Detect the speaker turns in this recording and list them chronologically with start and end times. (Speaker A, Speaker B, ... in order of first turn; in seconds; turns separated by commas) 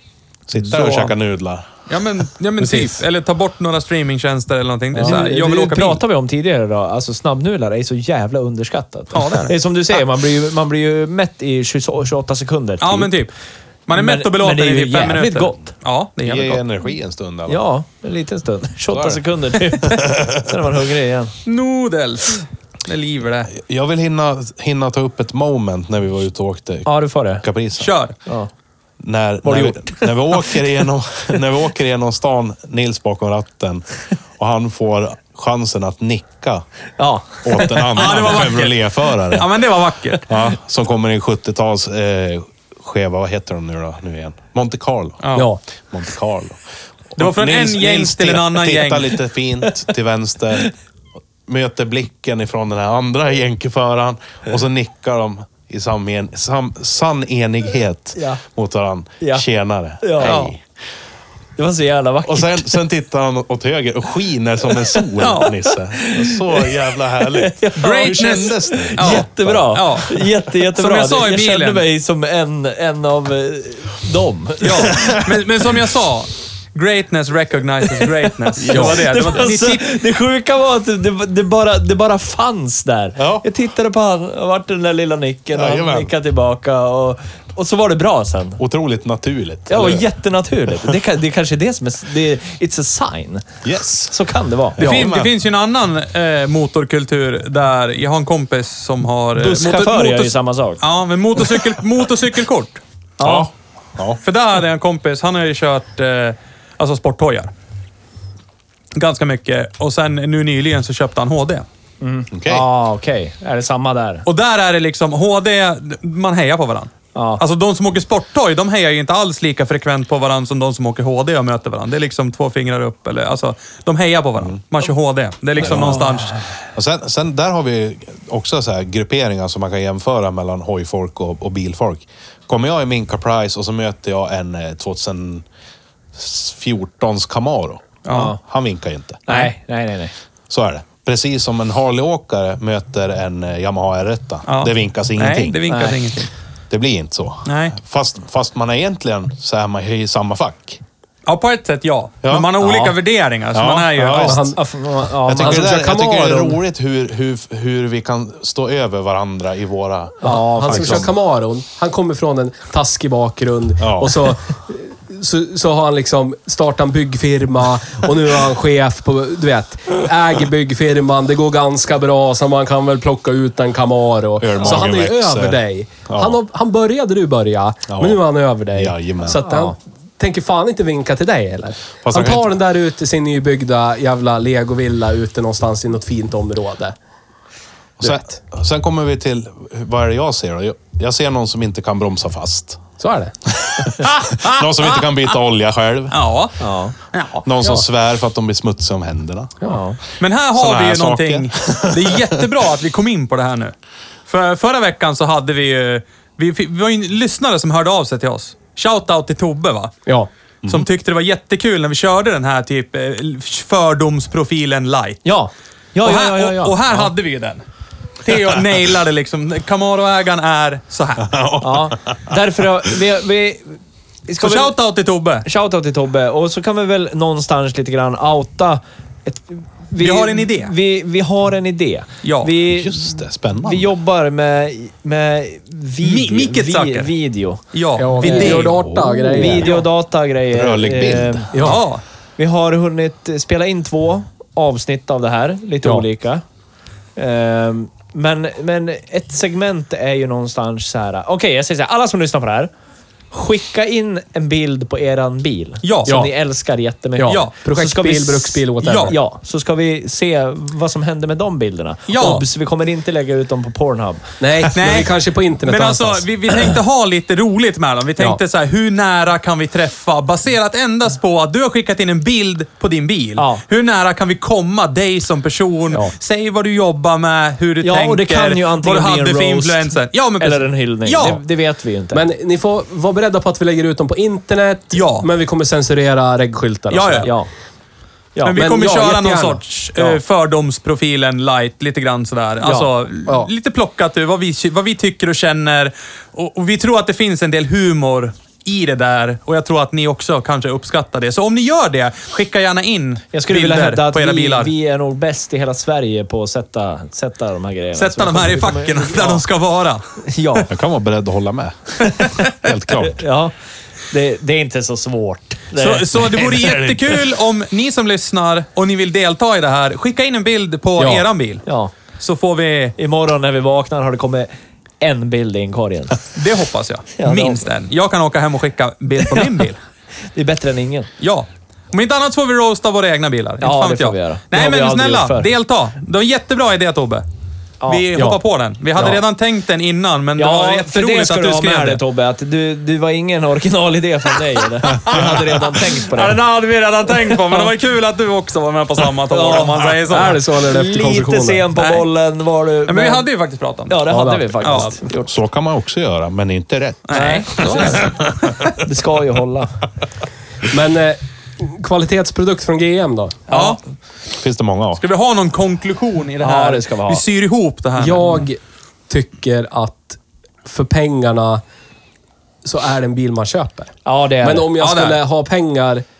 Speaker A: 0.5-1.7, Speaker B: 0.7-1.1, Speaker B: 1.9-6.0, Speaker C: 2.6-3.0, Speaker D: 4.9-13.1, Speaker B: 9.1-9.5, Speaker B: 12.8-13.3, Speaker B: 13.9-16.6, Speaker D: 13.9-15.6, Speaker A: 16.2-17.6, Speaker D: 17.5-21.4, Speaker A: 18.9-19.2, Speaker A: 19.8-20.4, Speaker B: 21.4-23.5, Speaker A: 23.5-26.9, Speaker D: 26.9-27.4, Speaker A: 27.4-27.9, Speaker B: 27.8-28.1, Speaker A: 29.0-36.6, Speaker D: 29.4-30.6, Speaker D: 37.0-38.1, Speaker A: 37.4-39.5, Speaker B: 37.9-40.3, Speaker A: 40.3-45.2, Speaker B: 45.2-45.5, Speaker C: 45.3-45.6, Speaker A: 45.9-46.6, Speaker A: 47.1-50.7, Speaker B: 47.2-49.1, Speaker A: 51.5-60.6, Speaker D: 58.1-58.4, Speaker D: 60.0-60.4, Speaker B: 60.2-60.5, Speaker D: 61.6-62.7, Speaker A: 62.2-69.8, Speaker B: 65.2-65.5, Speaker D: 65.9-66.7, Speaker D: 67.2-75.2, Speaker B: 67.8-71.8, Speaker B: 74.6-79.9, Speaker D: 78.5-88.6, Speaker A: 83.2-83.4, Speaker A: 85.5-86.1, Speaker A: 88.6-90.1, Speaker D: 89.7-94.8, Speaker A: 93.6-94.1, Speaker A: 94.8-95.3, Speaker B: 94.8-102.8, Speaker D: 99.3-100.8, Speaker D: 103.2-103.5, Speaker A: 103.2-104.2, Speaker B: 104.2-107.5, Speaker B: 108.9-111.6, Speaker D: 112.0-114.2, Speaker A: 112.3-112.7, Speaker B: 114.2-126.4, Speaker D: 117.1-117.4, Speaker A: 125.6-126.1, Speaker A: 126.7-135.4, Speaker A: 136.1-139.2, Speaker B: 138.0-138.3, Speaker D: 138.1-138.4, Speaker D: 139.3-140.1, Speaker A: 140.5-145.6, Speaker B: 144.5-146.3, Speaker D: 145.7-146.0, Speaker A: 146.7-150.8, Speaker B: 147.4-147.8, Speaker B: 151.2-154.4, Speaker A: 152.2-152.5, Speaker D: 152.6-152.9, Speaker A: 153.5-154.5, Speaker C: 154.1-154.6, Speaker D: 154.5-155.7, Speaker A: 155.2-161.1, Speaker C: 155.4-156.6, Speaker D: 160.2-161.1, Speaker C: 160.2-186.9, Speaker A: 163.8-164.3, Speaker A: 174.4-176.4, Speaker A: 177.9-178.2, Speaker A: 178.7-179.4, Speaker D: 179.4-179.7, Speaker A: 182.0-182.5, Speaker A: 188.0-192.8, Speaker C: 188.0-188.3, Speaker C: 193.0-193.3, Speaker A: 193.5-196.2, Speaker B: 194.0-195.0, Speaker B: 196.1-197.4, Speaker D: 196.6-196.9, Speaker A: 197.4-199.6, Speaker D: 199.7-200.0, Speaker B: 200.2-203.7, Speaker A: 200.5-202.4, Speaker B: 204.3-209.9, Speaker B: 210.6-215.2, Speaker D: 215.2-217.1, Speaker B: 216.0-217.6, Speaker B: 218.2-221.3, Speaker A: 221.2-222.4, Speaker D: 221.6-224.7, Speaker B: 224.4-225.4, Speaker D: 225.4-237.6, Speaker B: 230.0-230.7, Speaker B: 232.2-232.5, Speaker A: 232.6-233.9, Speaker B: 236.0-237.1, Speaker B: 237.7-238.8, Speaker C: 238.0-239.8, Speaker D: 238.2-238.7, Speaker A: 238.4-239.8, Speaker D: 239.3-241.6, Speaker A: 240.5-241.6, Speaker C: 241.5-241.8, Speaker B: 241.6-242.0, Speaker D: 242.4-246.4, Speaker D: 247.2-252.7, Speaker D: 253.3-264.2, Speaker B: 255.8-256.2, Speaker C: 256.1-256.3, Speaker C: 257.2-259.2, Speaker B: 257.3-257.5, Speaker B: 258.8-259.1, Speaker B: 262.1-262.4, Speaker C: 264.4-266.2, Speaker B: 264.7-281.4, Speaker D: 273.4-273.6, Speaker D: 277.8-282.2, Speaker C: 282.1-287.3, Speaker B: 284.9-285.3, Speaker B: 286.9-287.3, Speaker D: 287.2-287.5, Speaker D: 288.3-288.6, Speaker B: 288.4-304.7, Speaker C: 288.5-290.1, Speaker D: 292.6-292.9, Speaker D: 303.3-309.4, Speaker B: 307.9-310.6, Speaker D: 310.2-310.7, Speaker A: 310.7-313.2, Speaker B: 312.2-312.4, Speaker D: 313.0-313.5, Speaker D: 314.1-316.2, Speaker B: 315.8-322.9, Speaker A: 316.2-317.2, Speaker C: 321.0-321.2, Speaker D: 321.6-321.9, Speaker D: 323.0-324.5, Speaker D: 325.0-326.2, Speaker B: 326.3-329.8, Speaker D: 327.1-327.6, Speaker D: 329.2-329.5, Speaker D: 330.3-331.1, Speaker B: 331.2-337.2, Speaker D: 333.6-335.5, Speaker D: 337.8-338.1, Speaker B: 337.9-342.0, Speaker C: 338.1-338.4, Speaker D: 340.4-346.4, Speaker B: 345.1-350.4, Speaker D: 349.3-353.2, Speaker C: 350.1-351.6, Speaker B: 351.8-352.1, Speaker B: 352.9-354.0, Speaker D: 353.9-355.3, Speaker C: 354.1-355.0, Speaker B: 354.6-354.9, Speaker A: 355.2-358.5, Speaker B: 357.1-358.1, Speaker D: 357.1-358.1, Speaker D: 358.7-359.8, Speaker C: 360.7-363.4, Speaker B: 363.5-363.8, Speaker D: 363.5-363.8, Speaker A: 364.4-365.0, Speaker B: 365.0-368.4, Speaker D: 366.4-367.2, Speaker C: 368.0-371.6, Speaker C: 372.6-376.0, Speaker D: 374.0-374.7, Speaker B: 374.8-375.2